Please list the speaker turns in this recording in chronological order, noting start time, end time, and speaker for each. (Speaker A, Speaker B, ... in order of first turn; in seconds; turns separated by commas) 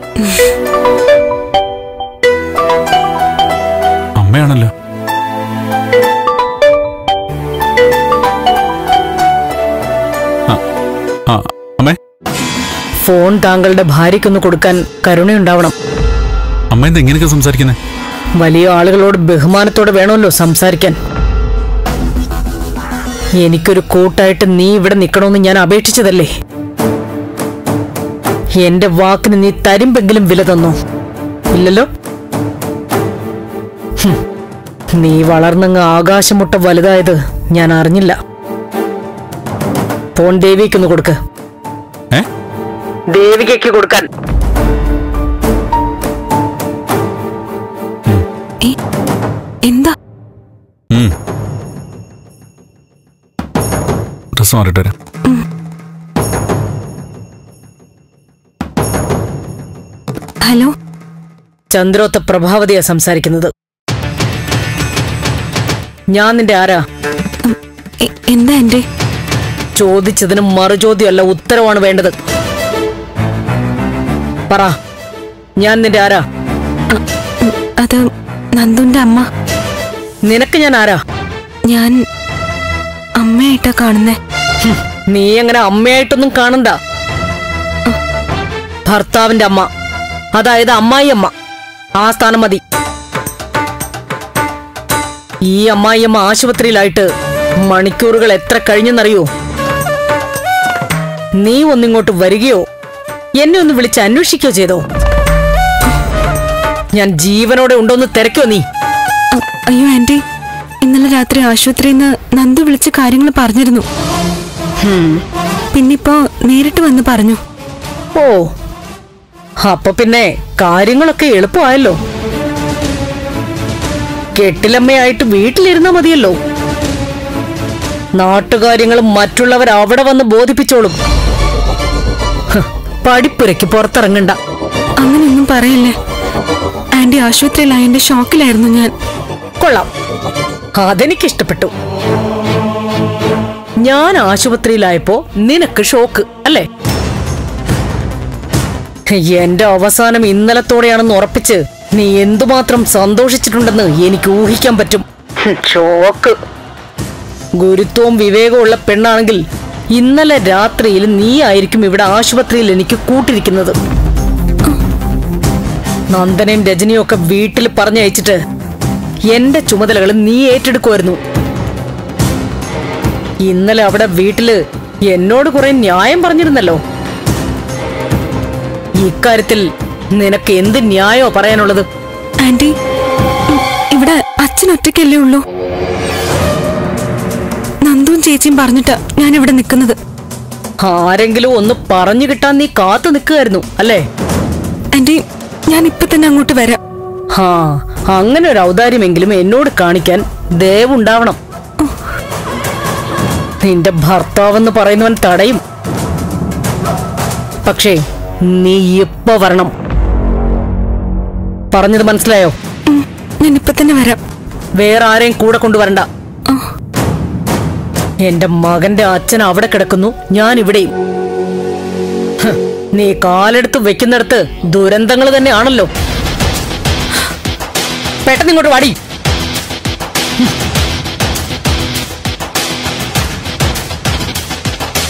Speaker A: 4.2-4.7, Speaker A: 11.3-12.0, Speaker B: 13.0-15.7, Speaker A: 16.7-17.8, Speaker B: 18.4-20.9, Speaker B: 23.4-26.3, Speaker B: 28.6-30.8, Speaker B: 31.5-31.9, Speaker B: 35.0-38.2, Speaker B: 40.1-41.2, Speaker B: 43.1-44.1, Speaker C: 49.6-49.9, Speaker A: 54.3-54.9, Speaker C: 60.4-60.7, Speaker B: 61.7-63.5, Speaker B: 66.1-66.8, Speaker C: 67.4-68.8, Speaker B: 69.8-72.1, Speaker B: 75.6-76.2, Speaker C: 76.9-78.0, Speaker C: 78.5-79.3, Speaker B: 80.3-81.0, Speaker C: 81.7-82.0, Speaker C: 83.2-84.2, Speaker B: 84.6-86.8, Speaker B: 88.8-89.7, Speaker B: 90.3-91.3, Speaker B: 92.0-92.6, Speaker B: 95.5-97.1, Speaker B: 97.6-99.3, Speaker B: 101.4-102.6, Speaker B: 103.4-104.8, Speaker B: 106.9-108.6, Speaker C: 109.3-110.2, Speaker C: 110.8-113.8, Speaker B: 114.8-115.2, Speaker C: 115.7-117.4, Speaker B: 118.1-118.5, Speaker B: 119.6-122.0, Speaker B: 124.3-126.4, Speaker B: 128.2-131.0, Speaker B: 132.5-134.4, Speaker C: 135.0-135.9, Speaker C: 136.9-138.9, Speaker B: 139.6-139.9, Speaker B: 140.8-141.7, Speaker B: 143.8-146.6, Speaker B: 149.2-156.3, Speaker B: 157.6-159.4, Speaker B: 159.9-163.8, Speaker B: 166.1-168.4, Speaker B: 169.3-171.2, Speaker B: 173.4-176.8, Speaker B: 179.0-181.8, Speaker C: 182.4-182.7, Speaker C: 183.5-185.4, Speaker C: 187.8-190.0, Speaker B: 190.8-194.0, Speaker C: 194.9-196.8, Speaker B: 197.3-201.4, Speaker B: 203.6-205.6, Speaker B: 207.6-209.7, Speaker B: 211.7-212.5, Speaker C: 212.9-214.2, Speaker B: 214.8-216.0, Speaker B: 218.2-220.9, Speaker B: 222.4-225.9, Speaker B: 228.2-228.9